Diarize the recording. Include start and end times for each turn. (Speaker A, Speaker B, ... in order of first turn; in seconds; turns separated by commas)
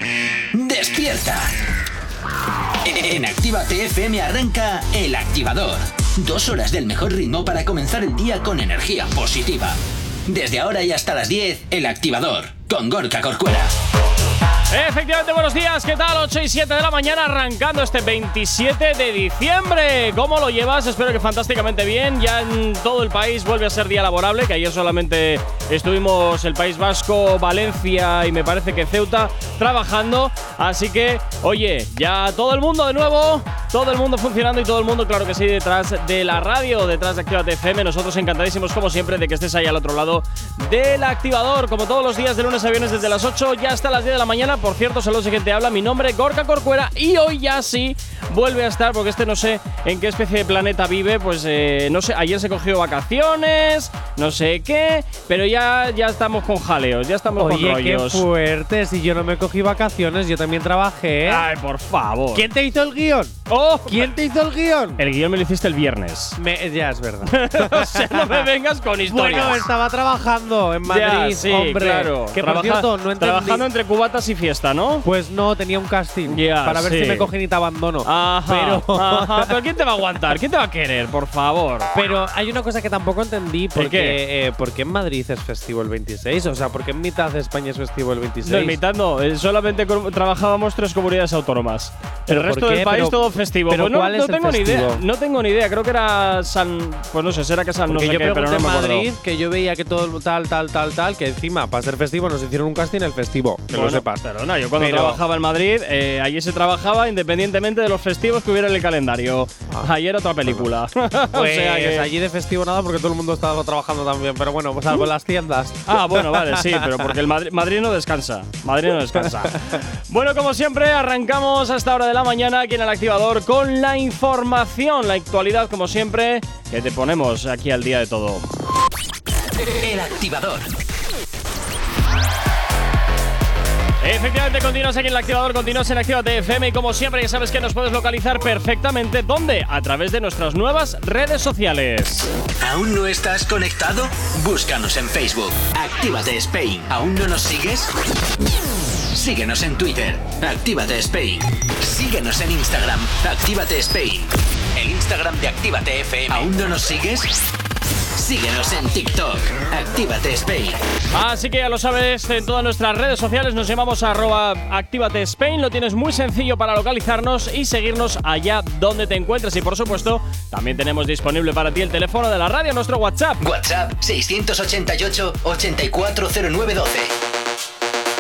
Speaker A: 0.5-1.5, Speaker A: 2.8-13.7, Speaker B: 14.7-58.2, Speaker C: 57.4-61.5, Speaker B: 61.3-62.5, Speaker C: 62.3-65.0, Speaker B: 63.5-64.1, Speaker B: 65.0-66.4, Speaker C: 66.4-68.5, Speaker B: 67.2-69.6, Speaker C: 69.0-73.7, Speaker B: 70.9-75.1, Speaker C: 75.0-79.5, Speaker B: 76.3-77.3, Speaker B: 78.0-81.9, Speaker C: 81.9-88.8, Speaker B: 83.8-84.2, Speaker B: 88.4-99.1, Speaker C: 92.3-95.0, Speaker C: 97.9-104.3, Speaker B: 103.7-112.1, Speaker C: 104.8-105.2, Speaker C: 111.3-117.2, Speaker B: 115.9-128.5, Speaker C: 119.1-119.5, Speaker A: 129.8-130.7, Speaker B: 134.0-142.3, Speaker A: 142.6-147.9, Speaker A: 149.1-157.3, Speaker A: 158.2-160.8, Speaker B: 161.1-173.4, Speaker A: 173.4-177.2